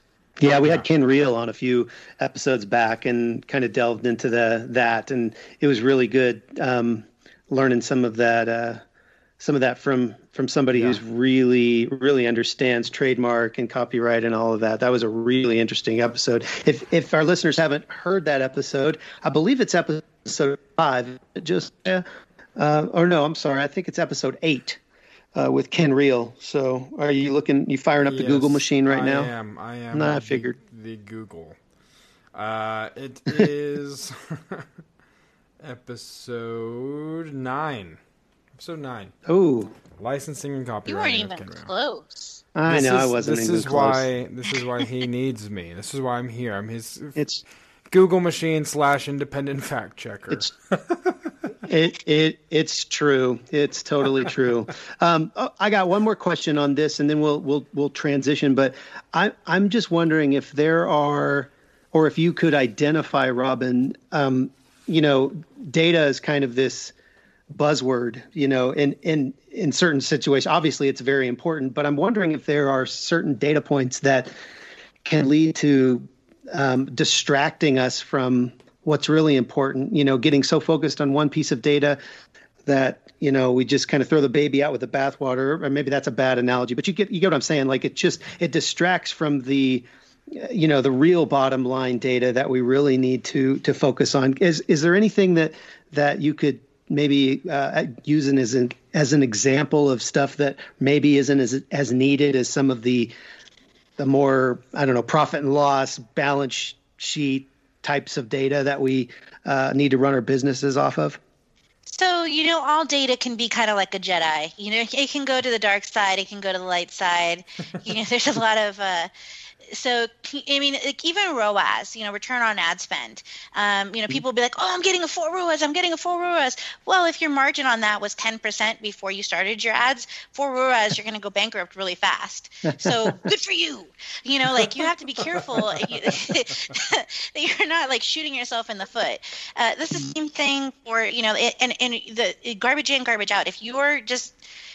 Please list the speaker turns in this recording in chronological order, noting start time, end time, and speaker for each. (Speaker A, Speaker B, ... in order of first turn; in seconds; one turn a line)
Speaker A: 0.4-8.8
Speaker A: 9.4-22.0
Speaker A: 22.6-24.8
Speaker A: 25.3-29.3
Speaker B: 28.1-31.6
Speaker A: 29.9-30.5
Speaker B: 32.3-34.7
Speaker B: 35.6-38.0
Speaker B: 38.6-39.1
Speaker A: 39.2-39.7
Speaker B: 40.0-41.7
Speaker C: 40.9-42.4
Speaker A: 42.5-44.0
Speaker B: 42.7-47.2
Speaker A: 47.1-47.4
Speaker B: 47.9-51.3
Speaker A: 51.6-66.9
Speaker A: 67.5-74.3
Speaker A: 75.0-82.0
Speaker A: 82.7-103.1
Speaker A: 104.0-111.2
Speaker C: 111.9-119.1
Speaker C: 119.7-144.4